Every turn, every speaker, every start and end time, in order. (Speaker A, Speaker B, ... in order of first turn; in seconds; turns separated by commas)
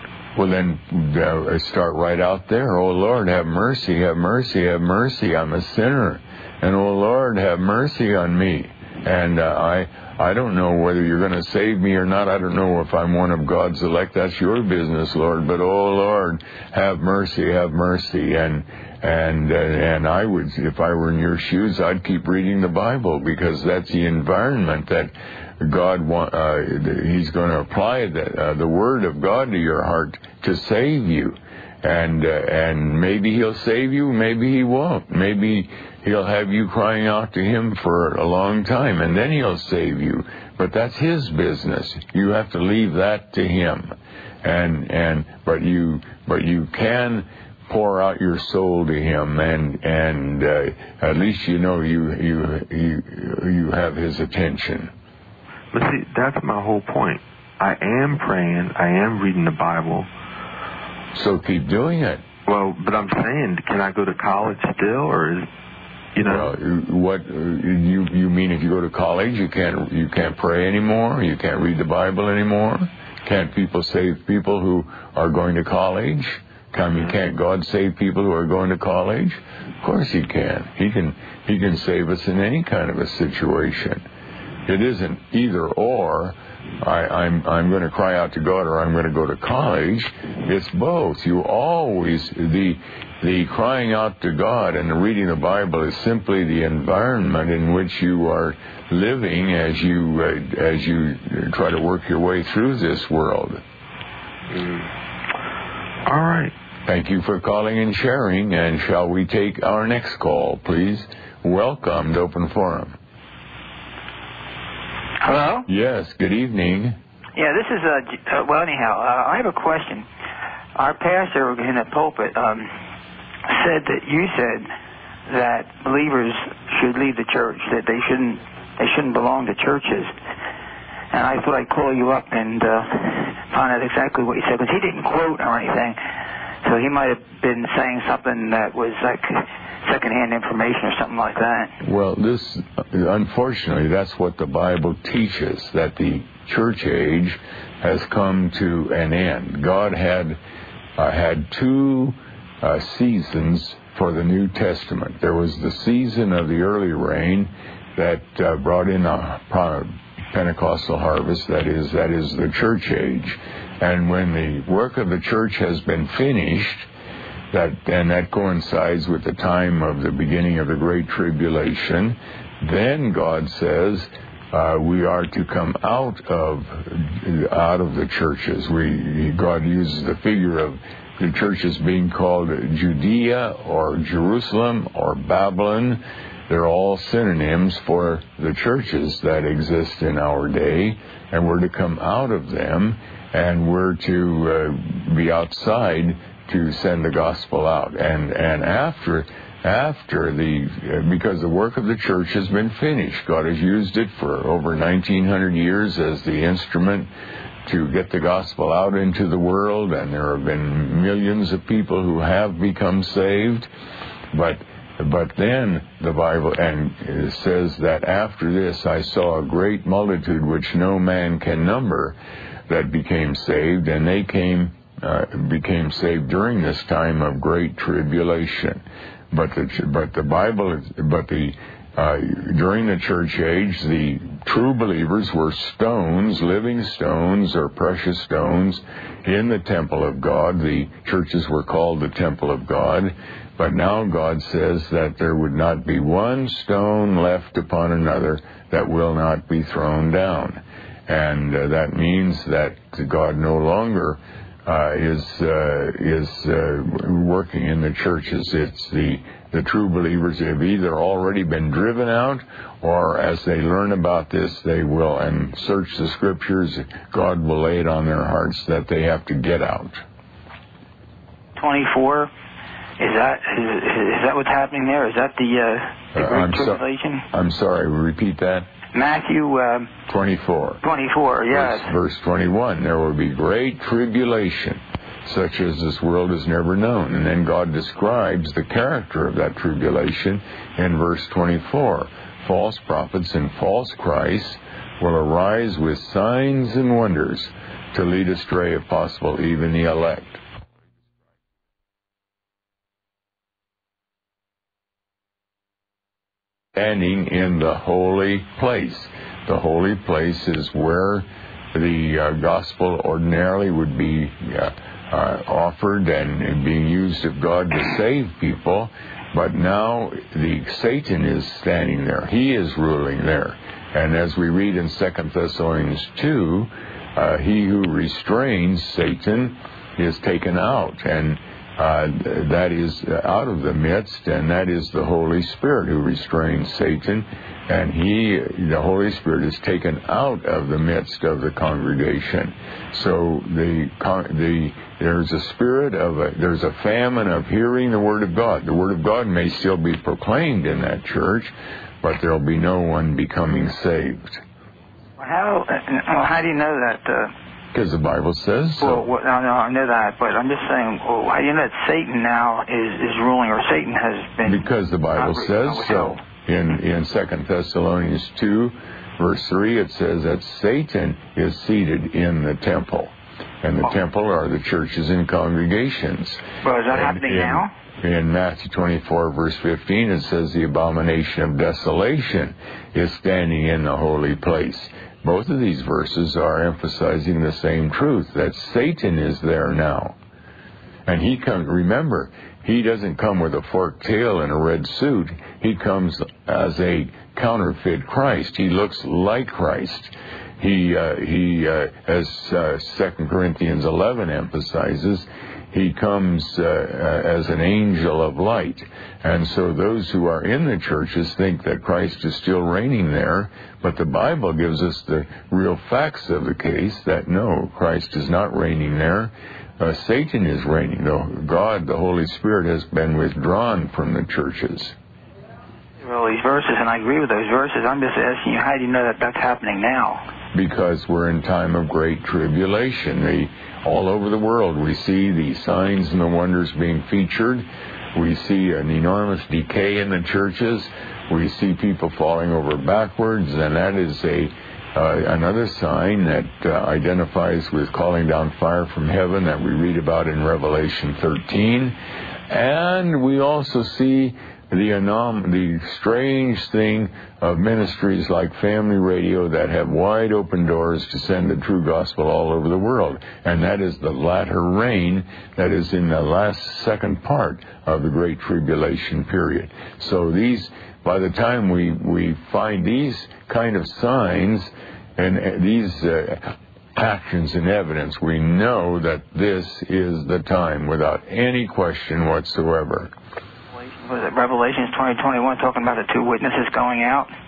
Speaker A: 0.4-54.9, Speaker B: 55.7-60.1, Speaker A: 61.1-62.2, Speaker B: 62.5-65.5, Speaker B: 66.2-66.5, Speaker A: 66.2-84.0, Speaker A: 84.7-103.6, Speaker B: 106.0-106.5, Speaker A: 106.9-113.0, Speaker C: 115.2-115.7, Speaker A: 115.7-117.0, Speaker C: 117.3-120.1, Speaker C: 120.8-122.7, Speaker C: 123.5-124.7, Speaker C: 125.3-130.1, Speaker C: 131.1-136.0, Speaker C: 136.6-141.7, Speaker A: 141.8-150.4, Speaker A: 151.0-166.9, Speaker A: 167.5-207.1, Speaker A: 207.7-213.7, Speaker A: 214.3-222.2, Speaker A: 222.7-270.0, Speaker C: 271.6-272.3, Speaker C: 273.0-277.3, Speaker A: 276.1-278.7, Speaker C: 278.9-279.9, Speaker A: 280.1-280.8, Speaker C: 280.8-281.9, Speaker A: 281.5-300.4, Speaker A: 306.8-354.4, Speaker C: 355.2-357.3, Speaker A: 357.7-359.1, Speaker C: 358.8-366.2, Speaker A: 364.5-390.2, Speaker C: 376.6-377.7, Speaker A: 391.1-424.9, Speaker C: 426.0-430.3, Speaker A: 430.5-452.0, Speaker A: 452.5-483.1, Speaker C: 483.8-487.3